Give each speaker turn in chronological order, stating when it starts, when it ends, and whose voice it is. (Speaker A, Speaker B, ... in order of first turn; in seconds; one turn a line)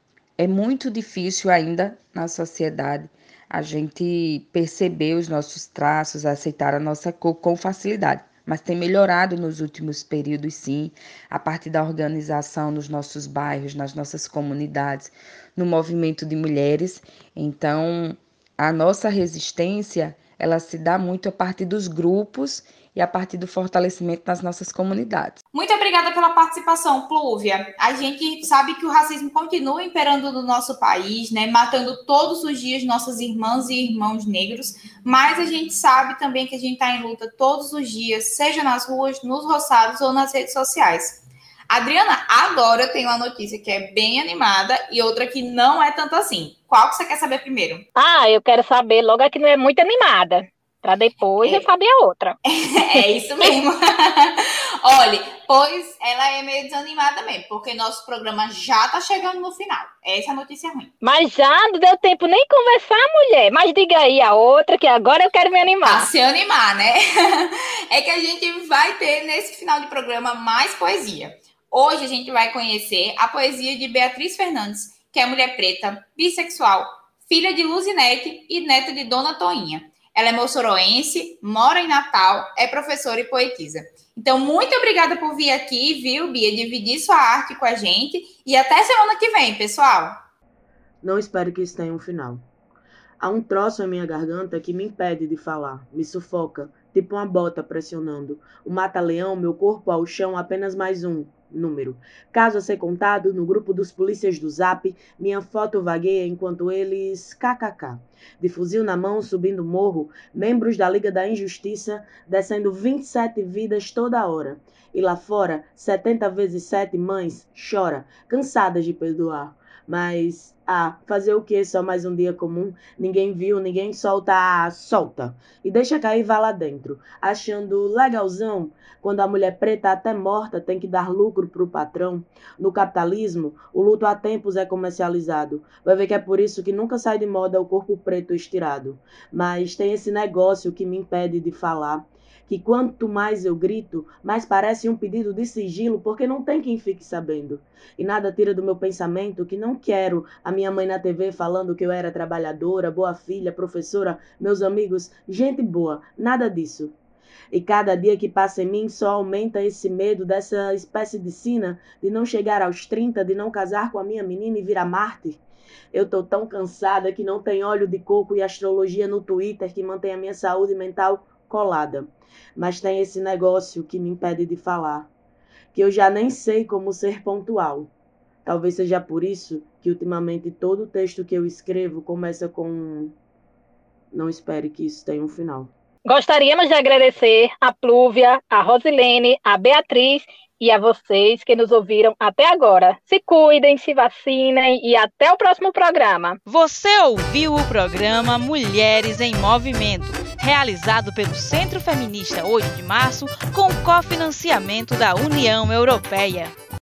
Speaker A: 0.4-25.4
Speaker B: 25.5-47.8
Speaker C: 47.9-52.4
Speaker B: 52.5-60.9
Speaker C: 61.0-66.1
Speaker B: 65.8-90.2
Speaker D: 91.0-92.4
Speaker D: 93.2-156.9
Speaker D: 157.5-165.4
Speaker D: 165.9-175.1
Speaker D: 175.7-177.9
Speaker D: 178.4-183.1
Speaker D: 184.1-185.7
Speaker C: 186.1-196.4
Speaker E: 196.4-206.5